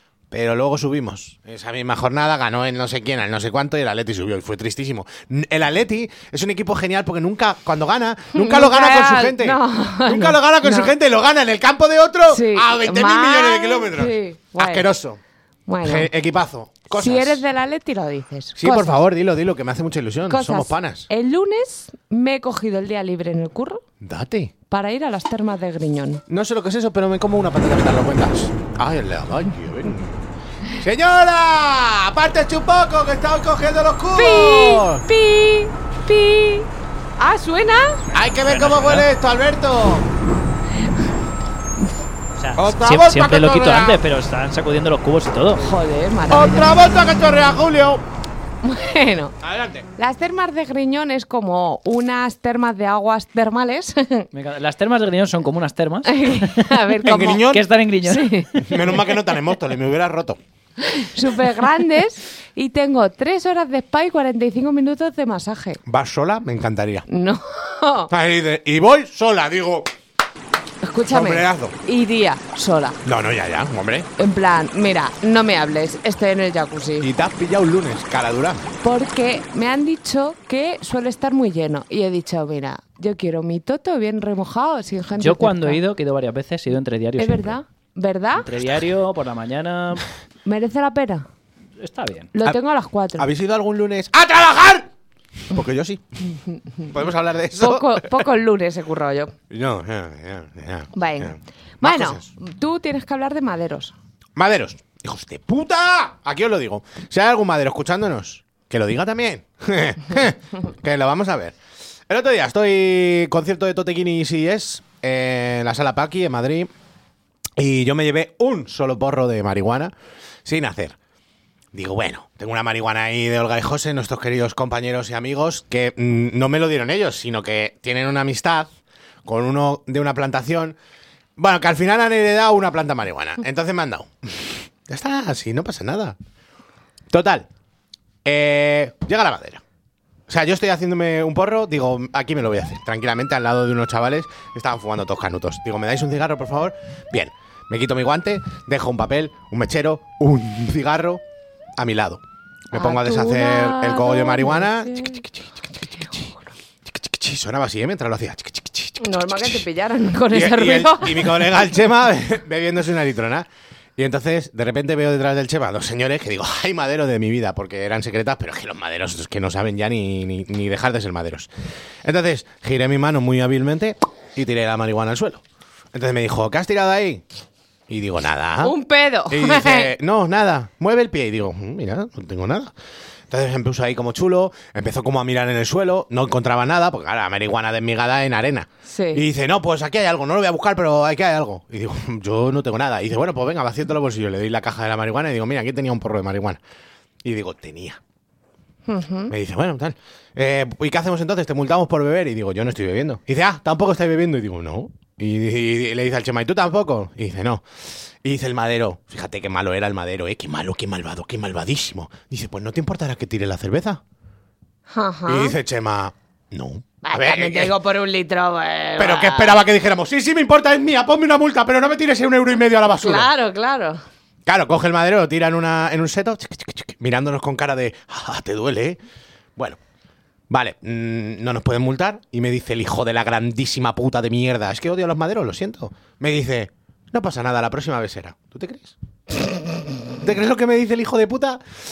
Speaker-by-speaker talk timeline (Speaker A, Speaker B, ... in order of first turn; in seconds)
Speaker A: 0.3-15.2, 15.8-17.4, 18.6-21.1, 24.0-24.5, 26.3-30.2, 30.8-35.1, 38.1-40.1, 42.6-44.0, 46.3-48.0, 49.4-49.9, 57.0-57.7, 58.6-60.4, 65.9-67.0, 68.1-69.9, 71.1-71.8, 73.0-74.1, 77.0-78.7, 93.2-94.9, 95.5-96.2, 96.9-98.2, 99.5-102.3, 104.4-111.6, 112.1-116.7, 117.6-119.9, 120.5-121.0, 121.7-128.7, 129.3-130.8, 131.4-136.2, 137.1-137.5, 138.2-139.6, 140.3-151.2, 151.8-156.3, 156.8-159.6, 160.3-171.5, 172.0-177.2, 177.9-178.8, 179.3-182.7, 183.3-196.6, 197.2-198.0, 199.3-207.6, 208.2-214.0, 215.3-217.8, 219.0-223.3, 224.5-229.0, 230.5-238.9, 240.2-241.6
Speaker B: 8.3-10.9, 12.3-14.9, 15.7-16.1, 16.9-19.0, 20.3-23.8, 24.7-26.2, 34.1-36.7, 37.2-38.0, 45.6-46.8, 48.6-49.3, 50.0-54.3, 56.1-57.5, 58.0-58.8, 60.8-65.8, 67.1-68.1, 70.8-73.0, 74.2-77.1, 78.8-85.8, 87.2-88.5, 90.5-91.2, 92.3-93.3, 97.6-99.3, 100.9-103.9, 152.7-155.2, 159.0-161.5, 178.6-179.9, 188.9-189.2, 198.9-199.3, 214.9-215.6, 217.0-219.6, 223.0-224.0
Speaker C: 38.5-39.1, 42.4-45.6, 54.3-58.7, 85.2-87.6, 88.4-90.1, 91.8-92.3